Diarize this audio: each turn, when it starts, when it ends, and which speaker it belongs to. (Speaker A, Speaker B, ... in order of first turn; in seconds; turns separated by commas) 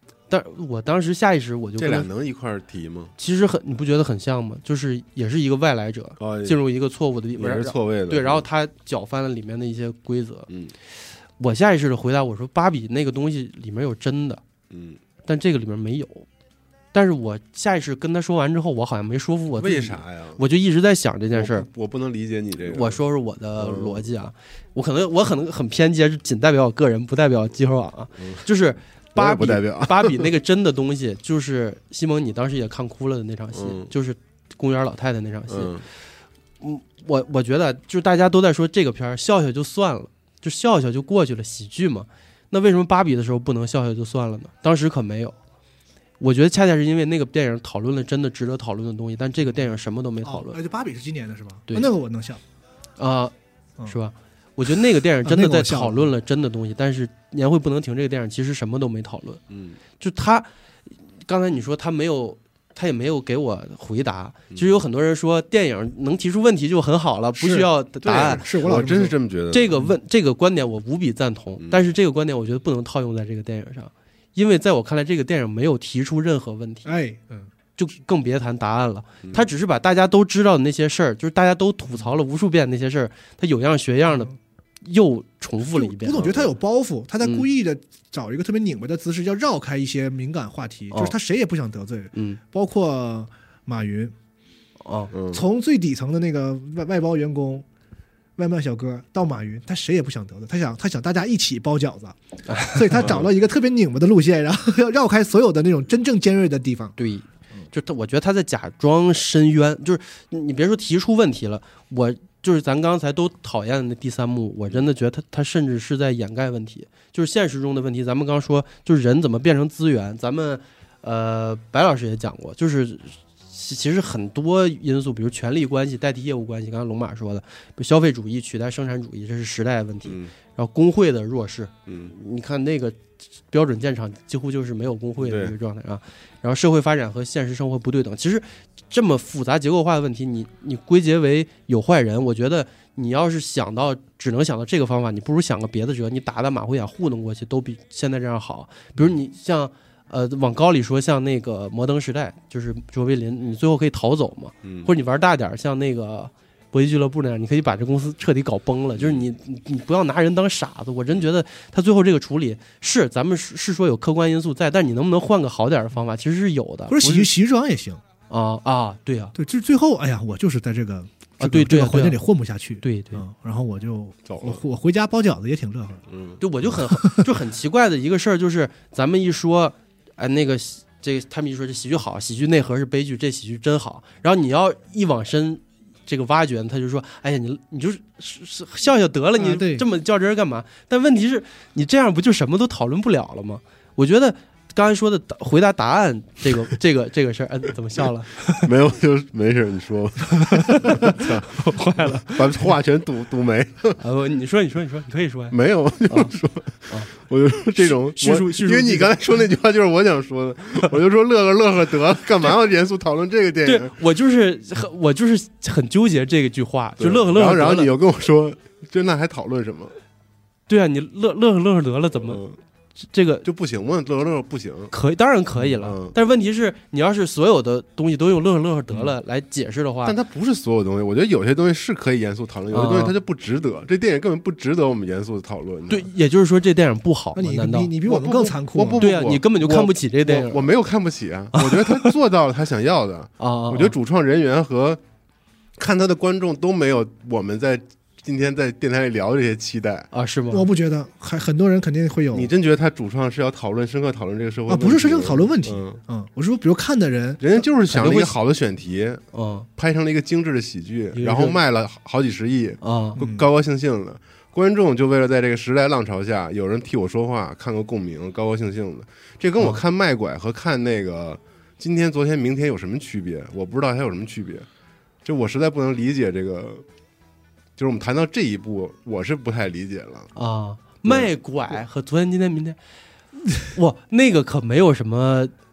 Speaker A: 0.3-2.1, Speaker B: 1.8-3.1, Speaker A: 3.2-10.5, Speaker B: 6.2-6.6, Speaker B: 7.3-8.5, Speaker B: 10.5-10.7, Speaker A: 11.4-14.4, Speaker B: 14.7-15.0, Speaker A: 15.2-16.3, Speaker A: 16.9-21.7, Speaker B: 19.6-20.4, Speaker B: 21.3-23.0, Speaker A: 22.7-35.9, Speaker B: 23.6-24.1, Speaker B: 28.2-28.4, Speaker B: 29.1-30.2, Speaker B: 33.5-33.9, Speaker B: 35.5-35.9, Speaker A: 36.6-45.4, Speaker A: 46.2-50.6, Speaker C: 50.2-52.4, Speaker A: 53.0-53.3, Speaker A: 53.9-59.4, Speaker C: 55.2-56.1, Speaker B: 59.5-59.8, Speaker A: 60.0-60.5, Speaker A: 61.2-68.5, Speaker C: 67.3-69.2, Speaker B: 68.0-69.8, Speaker A: 69.5-76.9, Speaker C: 76.8-77.5, Speaker A: 77.8-86.3, Speaker C: 84.1-84.3, Speaker C: 85.6-94.1, Speaker B: 86.2-86.5, Speaker A: 92.1-92.4, Speaker A: 94.8-95.1, Speaker B: 95.1-95.4, Speaker C: 95.3-97.6, Speaker C: 98.4-107.0, Speaker A: 102.5-103.1, Speaker B: 103.0-103.3, Speaker A: 107.0-133.0, Speaker B: 130.1-130.3, Speaker B: 131.9-132.1, Speaker A: 133.5-167.3, Speaker B: 135.2-135.5, Speaker B: 154.6-154.9, Speaker B: 159.0-159.2, Speaker C: 166.9-168.0, Speaker A: 168.3-169.3, Speaker C: 169.3-176.0, Speaker A: 171.4-172.2, Speaker A: 172.8-173.2, Speaker B: 174.3-174.6, Speaker B: 176.1-176.4, Speaker A: 176.4-198.7, Speaker C: 176.9-177.2, Speaker C: 189.4-189.8, Speaker B: 198.6-201.6, Speaker A: 200.3-202.6, Speaker B: 202.2-204.0, Speaker A: 204.0-206.3, Speaker B: 205.5-213.9, Speaker A: 207.8-209.2, Speaker A: 213.6-217.9, Speaker B: 217.0-219.9, Speaker A: 220.7-222.4, Speaker B: 222.2-222.6, Speaker A: 223.0-223.4, Speaker B: 223.4-224.9, Speaker A: 224.9-230.2, Speaker B: 225.7-226.2, Speaker B: 230.0-236.1, Speaker A: 232.7-233.1, Speaker A: 235.9-237.9, Speaker C: 237.3-239.1, Speaker B: 238.0-245.0, Speaker A: 239.0-240.7, Speaker A: 241.5-242.1, Speaker A: 243.4-243.9, Speaker B: 245.8-250.1, Speaker A: 250.1-250.7, Speaker C: 250.5-252.5, Speaker B: 252.3-256.0, Speaker C: 254.7-257.4, Speaker B: 257.4-259.2, Speaker A: 257.9-258.3, Speaker A: 259.3-259.7, Speaker B: 259.8-274.7, Speaker A: 261.1-261.6, Speaker A: 262.8-263.2, Speaker C: 263.2-263.5, Speaker B: 275.2-276.8, Speaker B: 277.8-280.3, Speaker A: 280.3-282.8, Speaker B: 281.0-281.3, Speaker A: 283.6-285.5